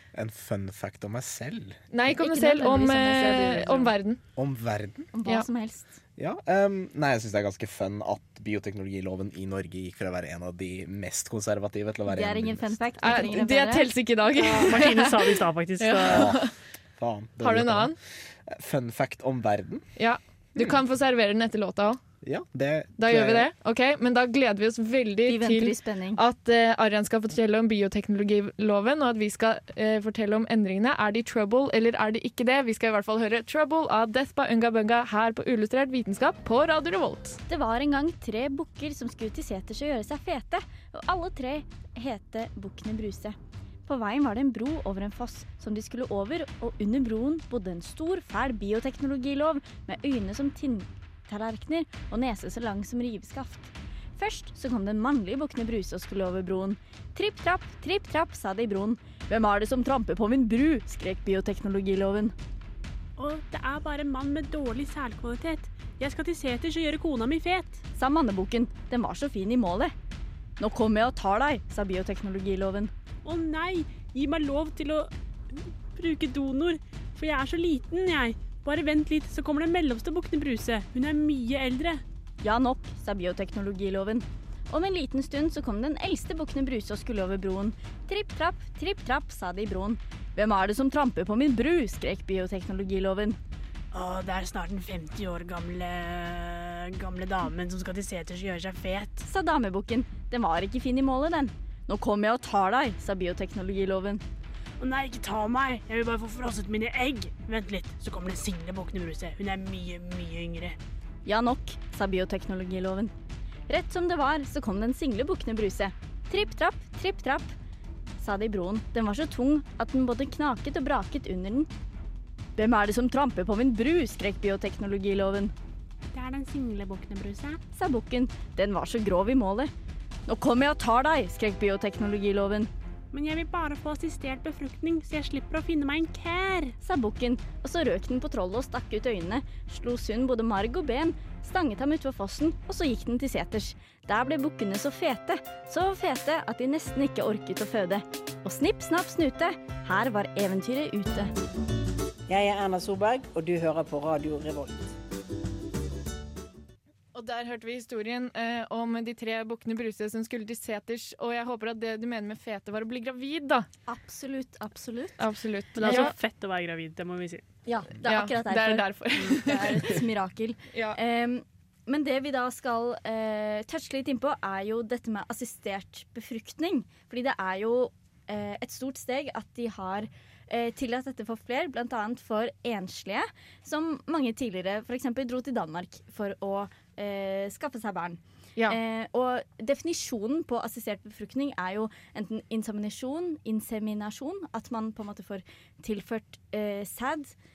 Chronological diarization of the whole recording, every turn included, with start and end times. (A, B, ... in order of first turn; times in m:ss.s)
0:00.1-0:01.8 A
0:01.9-0:04.2 B
0:02.1-0:03.9 C
0:04.4-0:05.1 A
0:05.1-0:05.9 C
0:06.2-0:12.7 A
0:12.1-0:13.9 C
0:13.0-0:16.5 B
0:14.4-0:16.3 D
0:16.0-0:19.9 A
0:17.4-0:18.0 B
0:20.0-0:22.0 B
0:22.2-0:23.5 A
0:23.0-0:37.4 B
0:25.3-0:26.2 C
0:37.5-1:02.4 C
1:03.2-1:07.8 D
1:08.0-1:09.9 C
1:10.6-1:12.9 C
1:13.2-1:22.0 D
1:22.4-1:33.4 C
1:33.9-1:39.2 D
1:39.2-1:44.2 C
1:44.8-1:50.8 D
1:51.3-1:53.1 C
1:53.7-1:57.6 C
1:58.2-2:01.7 C
2:02.6-2:05.5 C
2:06.1-2:07.6 D
2:07.7-2:09.7 C
2:10.3-2:12.7 C
2:13.1-2:16.8 D
2:16.8-2:31.3 C
2:32.3-2:34.9 E
2:37.1-2:43.7 B
2:43.9-2:45.2 C
2:45.2-2:46.1 B
2:45.8-2:47.4 D
2:45.8-2:46.1 C
2:47.7-3:17.3 C
2:48.0-2:50.0 B